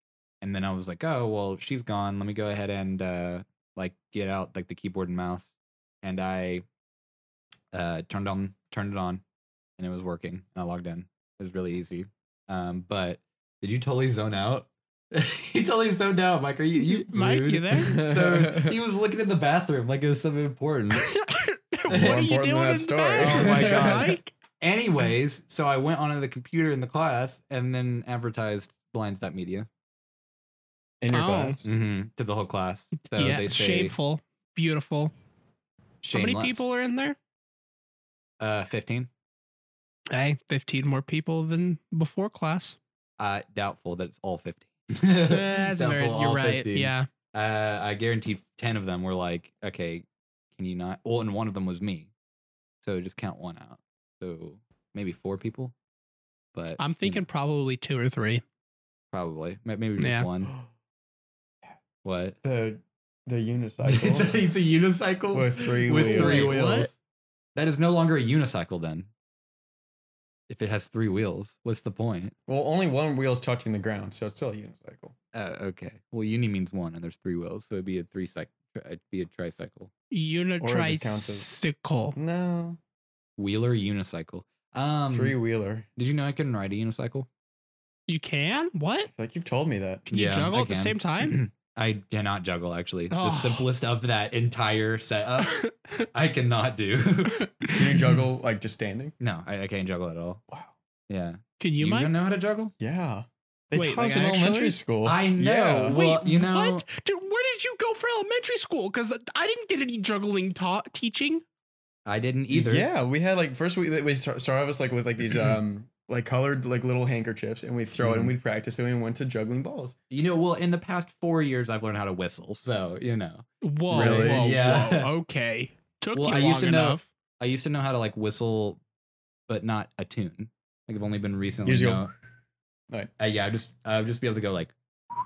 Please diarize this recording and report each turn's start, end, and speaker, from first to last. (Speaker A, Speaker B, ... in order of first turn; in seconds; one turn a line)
Speaker A: 0.4-6.6
Speaker A: 7.7-9.2
Speaker A: 9.8-21.1
Speaker B: 16.8-18.1
Speaker C: 17.8-18.8
Speaker B: 20.9-24.3
Speaker C: 21.9-24.2
Speaker A: 23.2-29.7
Speaker C: 31.0-31.7
Speaker B: 31.1-31.6
Speaker A: 31.6-34.0
Speaker B: 33.1-35.1
Speaker A: 36.0-36.7
Speaker B: 36.1-37.2
Speaker A: 38.4-39.1
Speaker B: 40.1-42.8
Speaker A: 43.2-52.1
Speaker B: 45.3-47.1
Speaker A: 52.8-55.7
Speaker A: 56.5-57.2
Speaker B: 56.8-58.4
Speaker A: 59.1-60.5
Speaker B: 60.0-60.3
Speaker A: 62.0-62.4
Speaker C: 62.4-64.4
Speaker A: 63.8-66.9
Speaker C: 65.3-66.9
Speaker B: 65.9-66.9
Speaker A: 67.5-69.1
Speaker A: 70.5-72.3
Speaker C: 72.5-75.1
Speaker A: 75.3-79.9
Speaker B: 80.1-82.2
Speaker C: 80.6-81.5
Speaker C: 82.1-82.8
Speaker A: 83.4-85.4
Speaker C: 85.1-85.9
Speaker A: 86.0-87.3
Speaker B: 88.1-89.1
Speaker C: 89.1-90.0
Speaker B: 90.1-91.4
Speaker A: 90.1-97.4
Speaker B: 93.1-93.7
Speaker B: 95.4-96.0
Speaker B: 97.3-98.1
Speaker C: 97.7-99.1
Speaker A: 99.2-100.4
Speaker A: 101.1-102.7
Speaker B: 101.6-102.1
Speaker C: 102.8-106.0
Speaker B: 103.7-104.8
Speaker A: 105.0-106.8
Speaker B: 105.9-111.4
Speaker A: 112.0-112.9
Speaker C: 112.5-120.0
Speaker A: 118.0-118.3
Speaker A: 120.1-125.1
Speaker B: 123.6-127.0
Speaker C: 123.9-124.5
Speaker A: 126.1-128.8
Speaker A: 129.5-132.1
Speaker C: 131.6-132.1
Speaker A: 133.2-134.7